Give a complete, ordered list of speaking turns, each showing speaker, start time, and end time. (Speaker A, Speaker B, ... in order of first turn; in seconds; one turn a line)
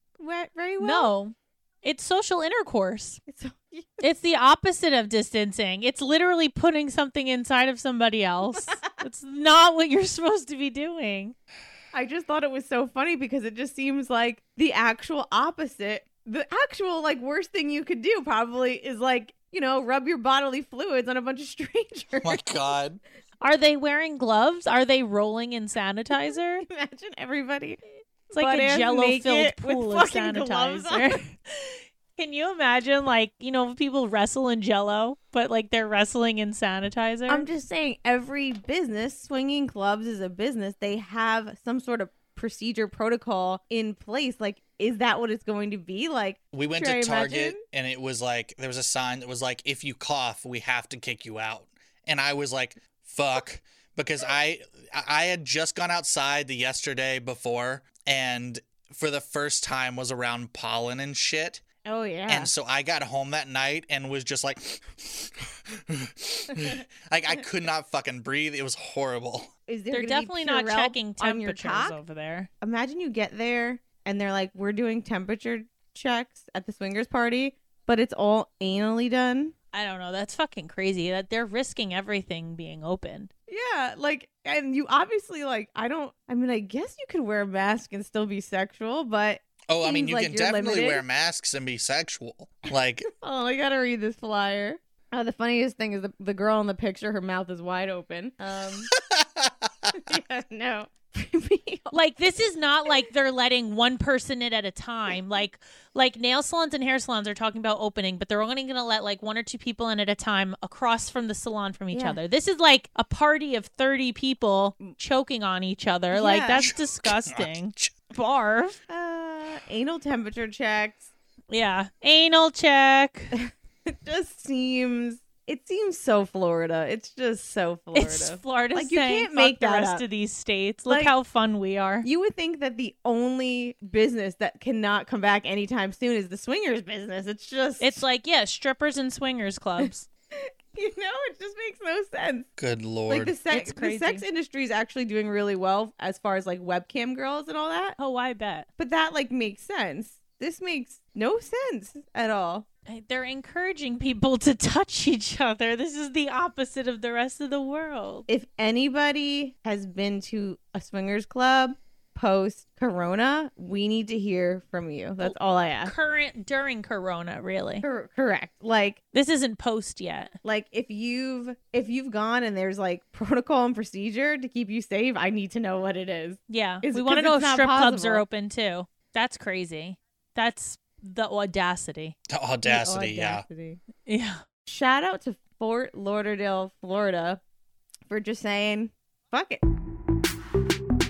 Speaker A: 0.2-1.1
Speaker B: 0.8-3.2
Speaker A: 3.3-4.0
Speaker B: 4.0-11.3
Speaker A: 8.5-8.8
Speaker A: 11.9-22.4
Speaker C: 22.2-23.0
Speaker B: 23.4-26.7
Speaker A: 26.6-31.2
Speaker B: 28.3-37.5
Speaker A: 37.3-47.6
Speaker C: 46.5-61.6
Speaker A: 61.8-62.5
Speaker C: 62.3-69.5
Speaker A: 69.7-72.0
Speaker B: 69.9-72.5
Speaker A: 72.6-79.5
Speaker B: 79.7-83.3
Speaker A: 83.5-91.0
Speaker C: 89.7-93.1
Speaker A: 93.1-98.9
Speaker C: 98.9-100.0
Speaker A: 99.9-102.0
Speaker B: 101.9-118.8
Speaker A: 111.9-112.2
Speaker A: 116.1-116.7
Speaker C: 116.6-117.9
Speaker A: 118.9-121.1
Speaker B: 121.5-123.3
Speaker A: 123.9-130.0
Speaker B: 127.9-132.1
Speaker A: 130.9-131.1
Speaker A: 132.0-138.0
Speaker B: 137.8-140.1
Speaker A: 139.8-142.5
Speaker C: 142.6-143.3
Speaker A: 143.1-148.0
Speaker B: 143.5-144.2
Speaker B: 148.0-148.7
Speaker A: 148.8-152.7
Speaker B: 152.9-158.3
Speaker A: 158.3-165.9
Speaker B: 165.2-167.8
Speaker A: 167.8-169.0
Speaker B: 169.1-170.3
Speaker A: 170.4-178.2
Speaker B: 176.5-182.2
Speaker C: 182.3-183.4
Speaker A: 182.6-183.8
Speaker B: 184.1-184.4
Speaker A: 184.7-187.4
Speaker A: 188.1-189.6